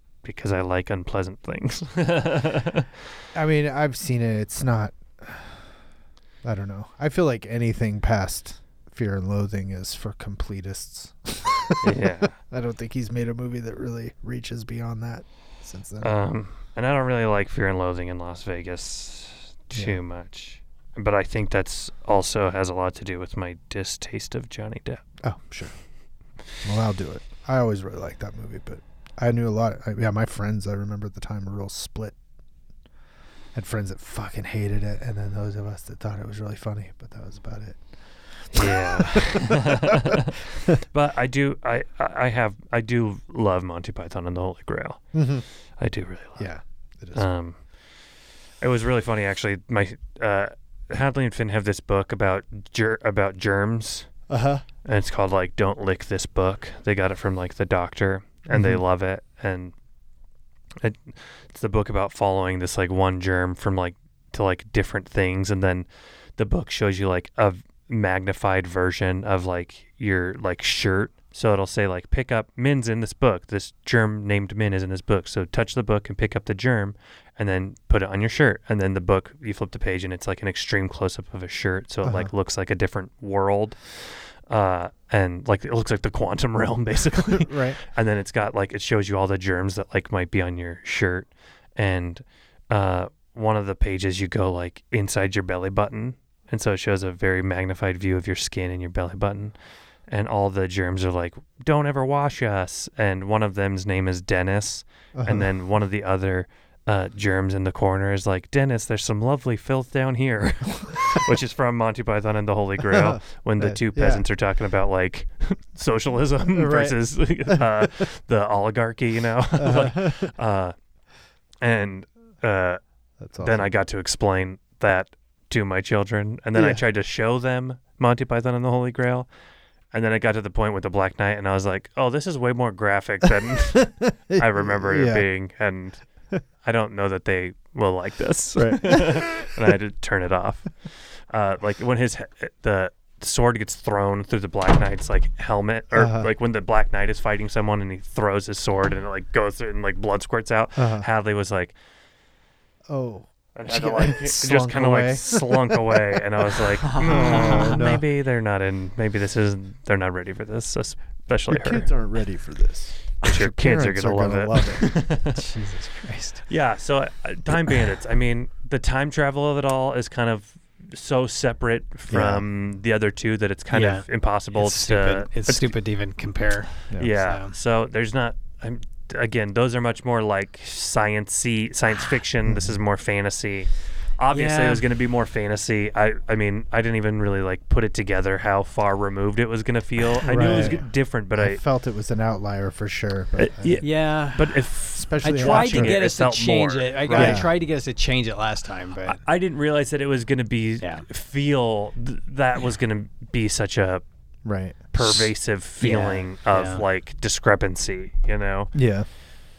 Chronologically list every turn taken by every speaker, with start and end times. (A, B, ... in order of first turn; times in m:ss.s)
0:00.2-0:02.9 A
0:03.3-0:05.6 B
0:06.4-0:16.1 B
0:11.8-0:12.3 A
0:16.0-0:25.0 A
0:25.2-0:25.7 B
0:26.6-0:32.1 B
0:33.5-0:37.8 B
0:38.4-0:40.2 B
0:38.5-0:45.2 A
0:45.1-0:45.4 B
0:45.8-0:46.5 A
0:46.4-0:47.2 B
0:47.1-0:47.6 A
0:48.6-0:54.1 A
0:54.3-0:54.6 B
0:54.8-0:59.7 A
0:58.5-0:58.8 B
1:00.8-1:39.5 A
1:22.0-1:22.3 B
1:27.2-1:27.8 B
1:40.1-2:00.7 A
1:45.1-1:45.5 B
1:52.8-1:54.2 B
1:56.5-1:57.8 B
1:59.6-2:00.3 B
2:01.6-2:02.8 A
2:03.2-2:03.7 B
2:03.4-2:09.3 A
2:06.5-2:06.8 B
2:09.9-2:16.0 A
2:13.8-2:15.2 B
2:16.6-2:31.7 A
2:18.6-2:19.2 B
2:25.9-2:26.3 B
2:30.8-2:31.1 B
2:32.9-2:38.0 B
2:33.5-2:41.9 A
2:36.8-2:37.8 C
2:41.5-2:45.0 B
2:43.2-2:45.4 A
2:45.3-2:46.4 C
2:46.5-2:55.7 A
2:52.1-2:52.4 B
2:53.7-2:57.5 C
2:56.9-2:57.1 B
2:57.0-3:11.6 A
3:02.4-3:02.8 B
3:04.3-3:04.8 C
3:10.2-3:13.8 B
3:13.4-3:17.4 A
3:13.8-3:14.6 C
3:14.9-3:15.9 B
3:15.2-3:19.2 C
3:17.1-3:17.5 B
3:19.0-3:24.0 A
3:20.8-3:21.0 C
3:24.4-3:24.8 B
3:24.9-3:28.7 A
3:25.0-3:26.8 C
3:28.7-3:29.1 B